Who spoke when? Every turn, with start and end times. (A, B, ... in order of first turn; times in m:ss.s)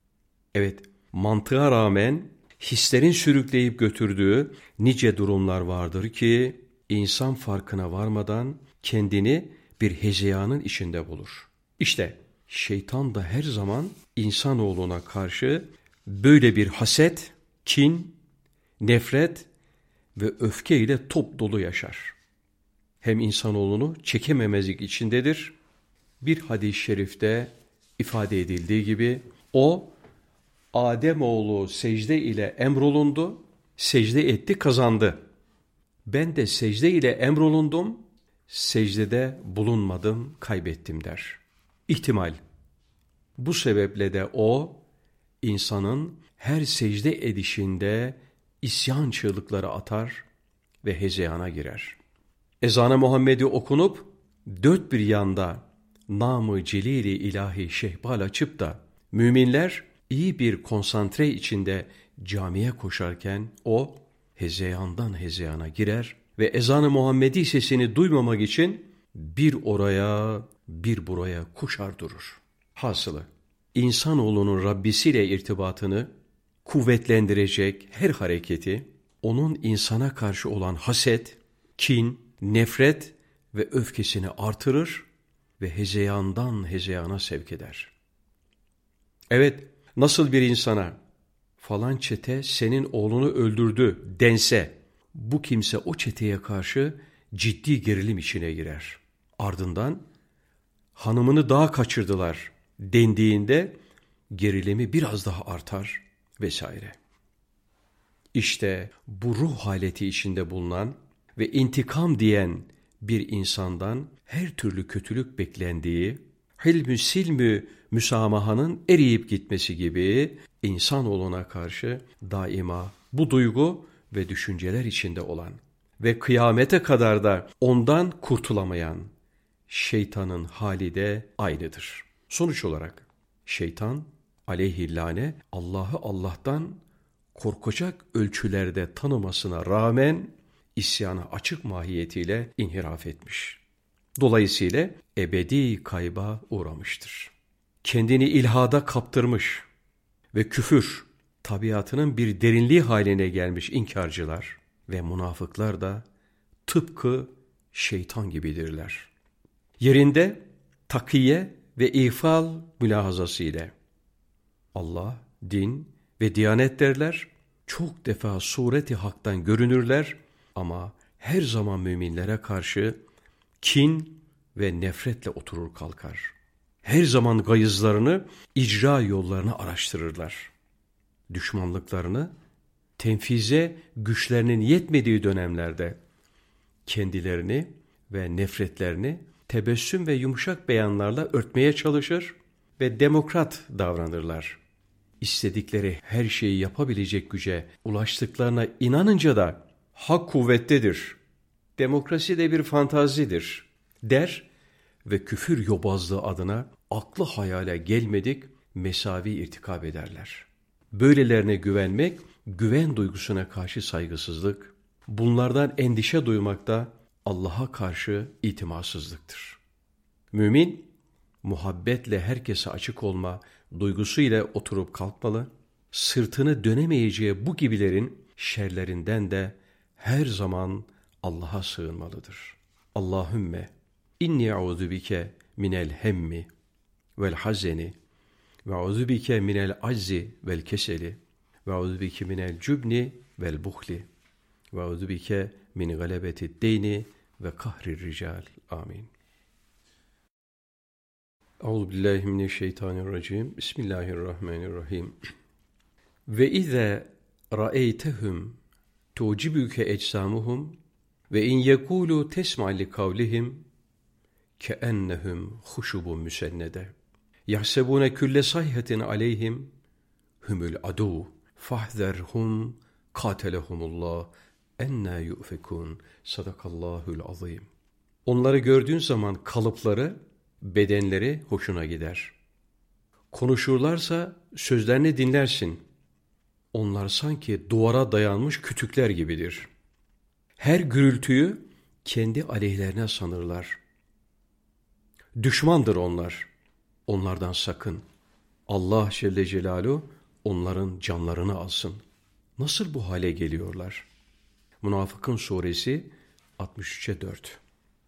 0:00.5-0:18.2 A
0:18.8-0:19.5 A
0:20.2-0:22.2 A
0:23.0-0:25.6 A
0:26.2-0:29.9 A
0:30.7-0:35.2 A
0:36.1-0:42.4 A
0:43.4-0:44.8 A
0:45.4-0:50.2 A
0:50.8-0:52.0 A
0:52.6-1:16.1 A
1:16.6-1:25.1 A
1:25.6-1:27.9 A
1:29.3-1:31.0 A
1:31.6-1:40.0 A
1:41.0-1:43.7 A
1:44.3-1:47.0 A
1:48.3-2:09.1 A
2:09.7-2:16.8 A
2:17.3-2:23.6 A
2:24.2-2:29.7 A
2:30.3-2:36.0 A
2:36.7-2:39.1 A
2:39.8-2:43.7 A
2:44.7-2:53.0 A
2:53.6-3:00.5 A
3:01.3-3:02.3 A
3:03.0-3:06.0 A
3:06.9-3:14.6 A
3:15.2-3:21.2 A
3:21.8-3:24.5 A
3:25.0-3:39.6 A
3:40.3-3:40.9 A
3:41.4-3:56.5 A
3:57.2-3:58.0 A
3:58.6-4:04.1 A
4:04.7-4:09.1 A
4:11.6-4:15.2 A
4:16.3-4:18.6 A
4:19.2-4:20.8 A
4:21.3-4:23.7 A
4:24.6-4:26.9 A
4:27.5-4:29.7 A
4:30.4-4:37.7 A
4:38.3-4:42.4 A
4:43.3-4:45.8 A
4:46.7-4:49.7 A
4:50.6-4:53.8 A
4:55.4-4:56.5 A
4:57.1-4:58.0 A
4:58.7-5:02.0 A
5:02.6-5:04.1 A
5:04.8-5:07.6 A